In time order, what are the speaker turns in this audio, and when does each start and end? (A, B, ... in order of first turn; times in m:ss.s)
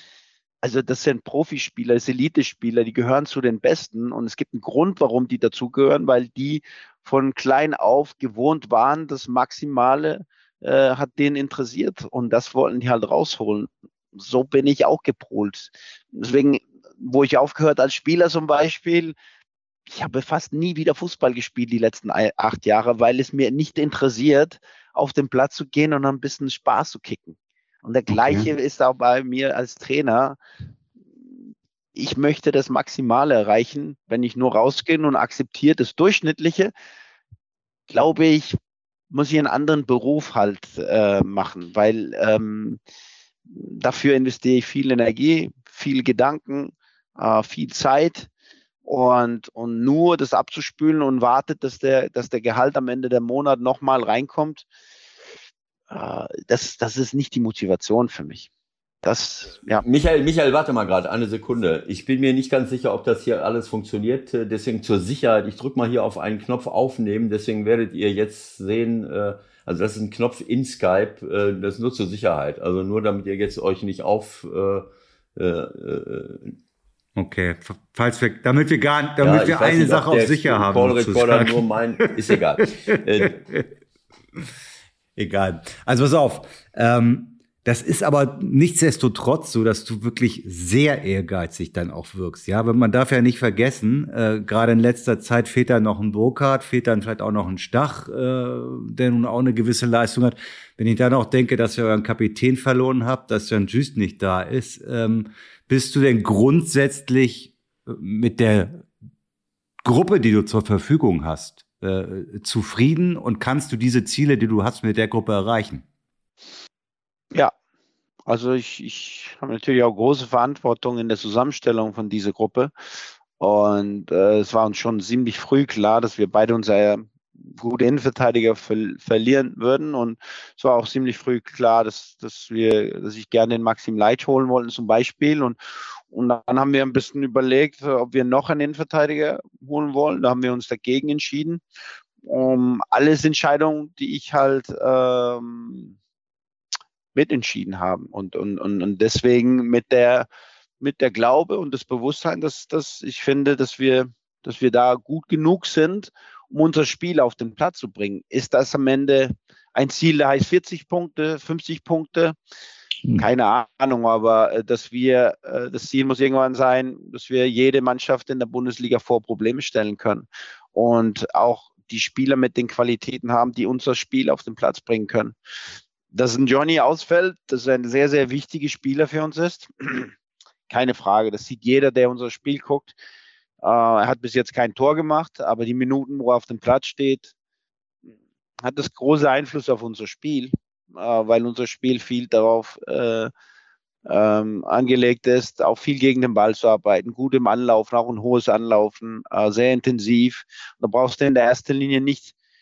0:00.6-0:19.2 A
0:19.9-0:30.4 A
0:28.1-0:28.5 B
0:32.0-0:36.7 A
0:37.9-0:38.6 A
0:39.1-0:42.8 A
0:43.5-0:48.3 A
0:48.8-0:54.7 A
0:55.9-0:58.5 A
0:59.0-0:59.8 A
0:59.8-1:16.5 C
1:17.2-1:22.1 B
1:19.2-1:23.4 C
1:22.9-1:23.6 B
1:25.2-1:48.9 B
1:49.8-1:55.8 B
1:58.3-2:02.7 A
2:03.4-2:15.6 A
2:16.1-2:21.6 A
2:22.2-2:25.9 A
2:27.2-2:30.3 A
2:30.8-2:42.4 A
2:43.2-2:55.4 A
2:56.1-3:00.1 A
3:00.7-3:02.9 A
3:03.6-3:07.3 A
3:08.6-3:13.3 A
3:14.1-3:22.3 A